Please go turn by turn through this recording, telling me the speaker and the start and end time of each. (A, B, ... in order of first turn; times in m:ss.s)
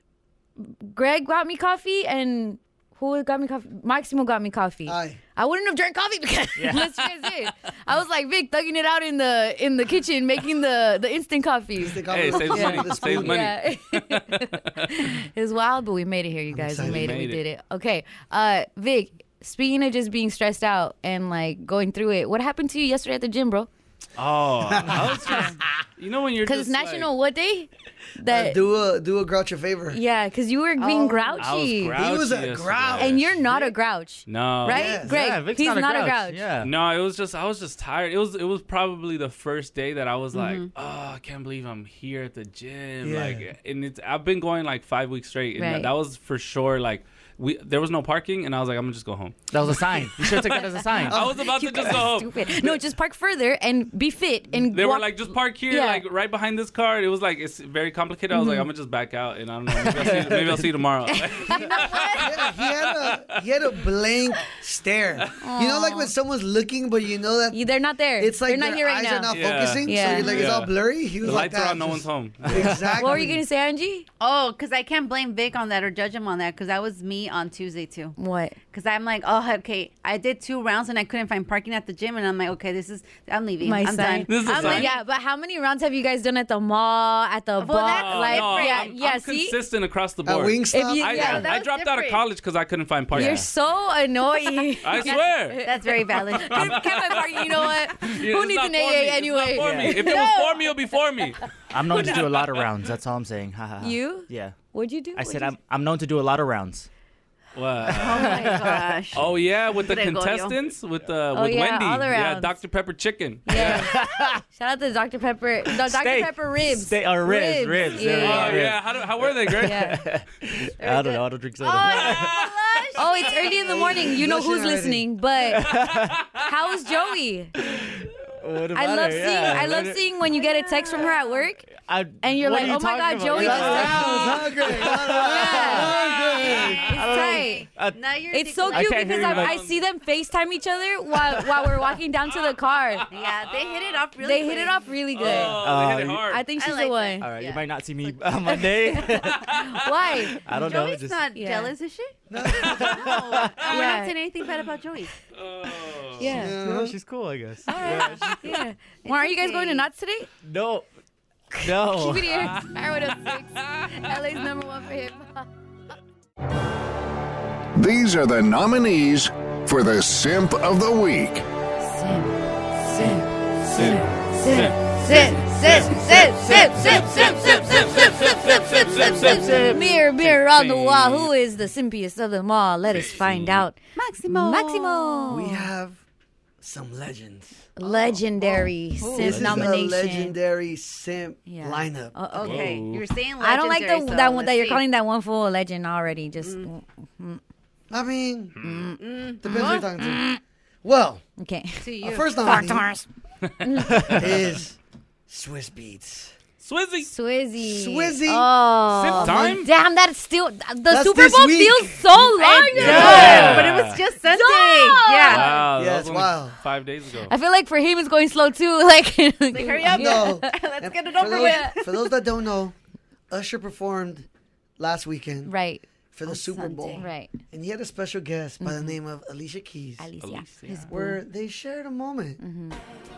0:00.6-0:23.7 A
0:04.9-0:05.2 B
0:06.6-0:07.1 C
0:11.8-0:13.4 B
0:12.1-0:15.0 D
0:16.5-0:17.2 B
0:16.8-0:17.4 D
0:24.2-0:27.1 D
0:24.7-0:25.5 B
0:25.0-0:25.6 A
0:26.4-0:28.6 A
0:28.3-0:30.0 B
0:29.9-0:32.0 A
0:30.8-0:31.3 E
0:31.4-0:33.4 D
0:31.9-0:33.7 B
0:33.0-0:36.4 A
0:34.3-0:35.0 D
0:34.7-0:35.2 B
0:35.0-0:36.7 C
0:36.6-0:49.4 D
0:40.3-0:40.7 E
0:43.0-0:43.4 B
0:45.6-0:45.9 A
0:49.5-0:51.2 C
0:50.6-0:56.0 A
0:51.1-0:52.8 D
0:51.1-0:52.0 B
0:54.7-1:03.3 D
0:58.3-0:58.7 A
0:59.7-1:00.7 C
1:01.4-1:02.2 E
1:01.5-1:07.6 B
1:05.4-1:06.1 A
1:07.5-1:09.3 A
1:08.2-1:13.4 B
1:09.3-1:12.7 D
1:09.8-1:10.4 A
1:12.4-1:12.9 C
1:13.0-1:14.1 A
1:14.2-1:18.1 E
1:18.2-1:18.6 A
1:18.7-1:25.0 E
1:23.6-1:29.6 A
1:24.3-1:24.9 D
1:27.6-1:28.8 E
1:27.9-1:33.4 D
1:30.2-1:31.3 B
1:30.7-1:31.5 A
1:31.1-1:32.2 E
1:33.1-1:33.5 C
1:33.1-1:40.3 A
1:34.8-1:35.6 D
1:35.0-1:36.8 E
1:36.3-1:41.4 D
1:39.6-1:40.0 C
1:40.1-1:40.4 E
1:41.7-1:44.6 C
1:41.9-1:42.2 E
1:43.8-1:45.5 A
1:45.1-1:46.9 C
1:47.5-1:48.4 D
1:47.9-1:48.9 C
1:48.0-1:50.6 E
1:49.1-1:53.8 D
1:51.3-1:52.5 A
1:53.5-1:58.7 A
1:53.5-1:54.4 C
1:55.7-2:02.3 C
1:58.2-1:59.9 D
1:59.6-2:00.0 A
2:00.8-2:01.2 A
2:01.6-2:04.0 E
2:01.8-2:02.2 A
2:03.0-2:05.7 A
2:03.6-2:05.0 B
2:05.5-2:06.1 C
2:05.6-2:06.4 D
2:06.4-2:07.5 A
2:07.6-2:10.1 C
2:08.7-2:11.7 A
2:10.3-2:11.4 E
2:11.7-2:16.0 C
2:12.2-2:14.5 A
2:13.3-2:16.9 B
2:15.1-2:15.9 A
2:15.9-2:16.9 D
2:16.4-2:19.4 E
2:16.9-2:17.7 A
2:16.9-2:18.0 C
2:18.3-2:23.1 A
2:18.7-2:19.5 C
2:19.1-2:19.8 D
2:22.3-2:24.0 D
2:23.1-2:24.8 E
2:24.2-2:25.6 A
2:25.2-2:26.4 D
2:25.3-2:26.3 C
2:26.3-2:27.2 A
2:26.6-2:28.7 E
2:27.2-2:29.4 C
2:28.9-2:30.4 A
2:29.5-2:29.8 D
2:30.4-2:31.3 C
2:30.5-2:32.2 E
2:31.3-2:31.7 A
2:32.3-2:33.0 B
2:32.6-2:33.5 C
2:32.7-2:35.1 E
2:33.7-2:34.2 A
2:35.3-2:36.3 D
2:36.2-2:36.6 A
2:36.2-2:38.4 C
2:36.3-2:36.9 B
2:37.7-2:39.9 E
2:37.7-2:40.3 A
2:40.4-2:40.8 C
2:41.5-2:45.4 A
2:41.6-2:42.5 C
2:47.7-2:51.4 F
2:51.8-3:03.8 A
2:53.7-2:54.9 D
2:55.0-2:57.2 E
2:56.4-2:57.4 C
2:56.8-3:01.3 D
2:59.0-2:59.9 C
3:02.9-3:03.6 D
3:04.0-3:05.4 E
3:04.3-3:05.7 A
3:05.3-3:06.0 B
3:06.6-3:07.7 B
3:07.8-3:10.3 A
3:09.2-3:12.1 B
3:09.3-3:09.6 C
3:11.4-3:12.8 A
3:12.3-3:14.8 E
3:12.4-3:13.0 D
3:13.4-3:17.4 A
3:16.4-3:16.7 E
3:17.9-3:18.5 B
3:18.6-3:18.9 D
3:18.6-3:20.4 A
3:19.0-3:19.8 E
3:19.4-3:20.3 B
3:20.8-3:21.2 B
3:21.4-3:21.8 A
3:21.8-3:22.4 E
3:22.0-3:22.9 B
3:22.4-3:23.0 A
3:23.4-3:24.6 D
3:23.6-3:24.2 A
3:24.1-3:24.8 B
3:25.3-3:26.3 B
3:26.6-3:27.1 D
3:27.0-3:33.6 A
3:27.6-3:28.5 B
3:29.0-3:29.7 D
3:29.2-3:29.6 B
3:30.9-3:32.1 B
3:32.4-3:35.6 E
3:32.7-3:34.0 D
3:32.8-3:33.8 C
3:32.8-3:33.4 B
3:34.2-3:35.6 A
3:35.2-3:37.3 D
3:35.7-3:36.6 B
3:37.3-3:40.5 A
3:39.5-3:42.1 E
3:39.6-3:42.7 B
3:41.2-3:41.8 A
3:43.3-3:44.2 B
3:44.8-3:45.5 B
3:45.4-3:45.8 A
3:46.1-3:50.1 B
3:46.3-3:47.1 E
3:47.0-3:47.3 A
3:48.6-3:49.0 A
3:50.0-3:51.2 A
3:50.2-3:50.9 D
3:50.9-3:52.4 B
3:52.4-3:52.8 A